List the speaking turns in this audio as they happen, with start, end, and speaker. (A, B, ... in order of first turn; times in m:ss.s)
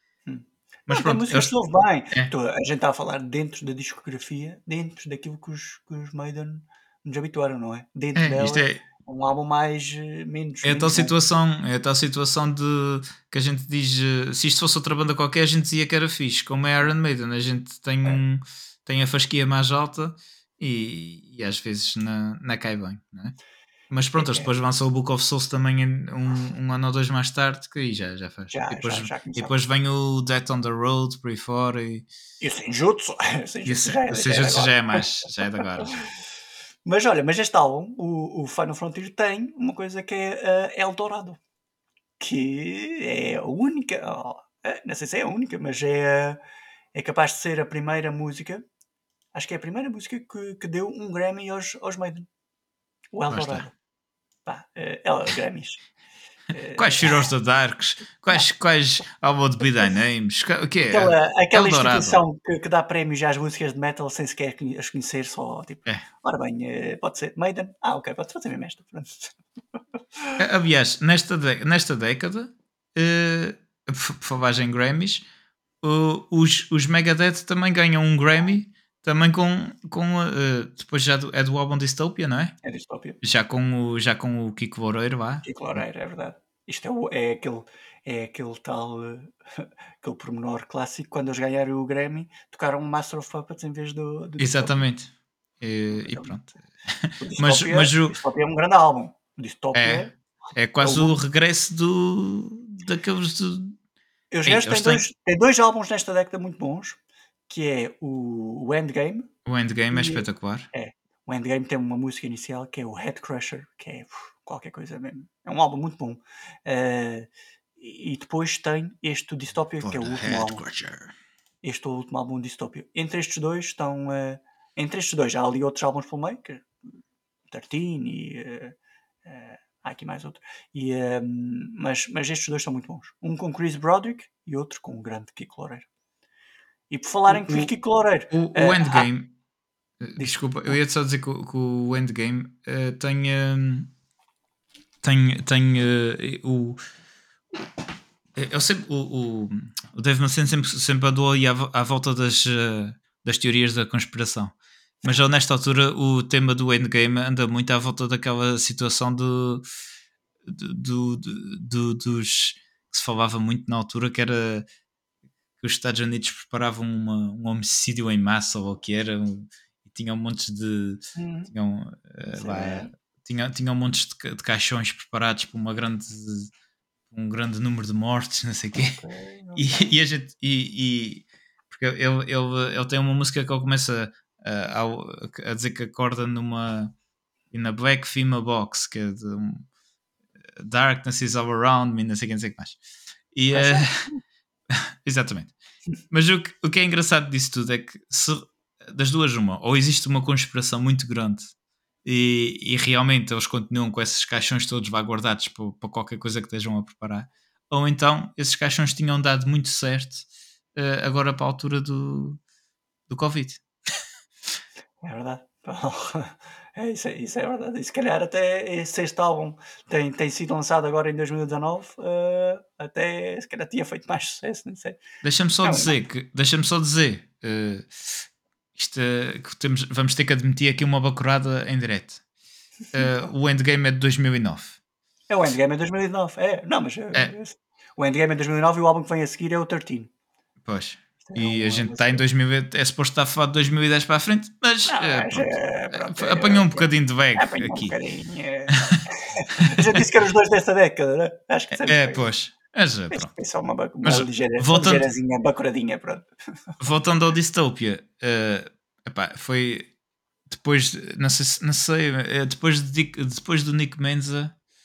0:00.3-0:11.1 A
0:00.9-0:01.5 B
0:08.2-0:08.8 B
0:10.6-0:23.4 B
0:23.9-0:32.1 B
0:24.0-0:24.5 A
0:28.5-0:29.5 A
0:32.4-0:35.3 A
0:33.7-0:36.0 B
0:36.9-0:41.4 A
0:42.2-0:46.4 A
0:46.9-0:48.6 A
0:49.3-0:52.3 A
0:53.1-0:53.7 A
0:53.3-0:53.7 B
0:54.5-0:55.8 A
0:56.5-0:57.3 A
0:56.8-1:02.2 B
1:00.9-1:09.4 A
1:10.4-1:15.2 B
1:15.8-1:22.6 B
1:22.6-1:23.2 A
1:23.2-1:25.8 B
1:25.4-1:34.8 A
1:34.4-1:38.2 B
1:36.0-1:36.3 A
1:37.2-1:40.1 A
1:39.8-1:43.8 B
1:40.8-1:41.1 A
1:44.3-1:47.0 A
1:44.4-1:45.0 B
1:47.5-1:49.3 A
1:49.5-1:50.7 B
1:49.9-2:00.6 A
1:59.8-2:01.1 B
2:01.6-2:06.7 A
2:07.5-2:15.9 A
2:16.9-2:19.1 A
2:17.3-2:17.7 B
2:18.3-2:19.3 B
2:20.0-2:23.9 B
2:20.2-2:20.8 A
2:25.0-2:26.8 B
2:28.4-2:39.7 B
2:40.4-2:44.7 B
2:45.6-2:56.5 B
2:51.2-2:51.5 A
2:52.3-2:52.9 A
2:57.1-2:59.0 B
2:58.8-2:59.9 A
2:59.6-3:06.9 B
3:07.5-3:09.7 B
3:10.6-3:12.8 B
3:13.3-3:14.1 B
3:13.5-3:14.2 A
3:14.7-3:15.5 B
3:16.1-3:21.5 B
3:22.0-3:32.4 B
3:33.1-3:33.6 B
3:35.0-3:45.0 A
3:45.2-3:52.2 B
3:45.6-3:46.0 A
3:52.9-3:54.8 B
3:53.0-3:53.3 A
3:55.3-4:00.1 A
4:00.6-4:08.0 B
4:01.2-4:02.2 A
4:04.9-4:12.3 A
4:09.6-4:10.0 B
4:11.7-4:13.3 B
4:13.1-4:16.3 A
4:14.0-4:15.1 B
4:16.8-4:19.9 B
4:20.5-4:24.5 B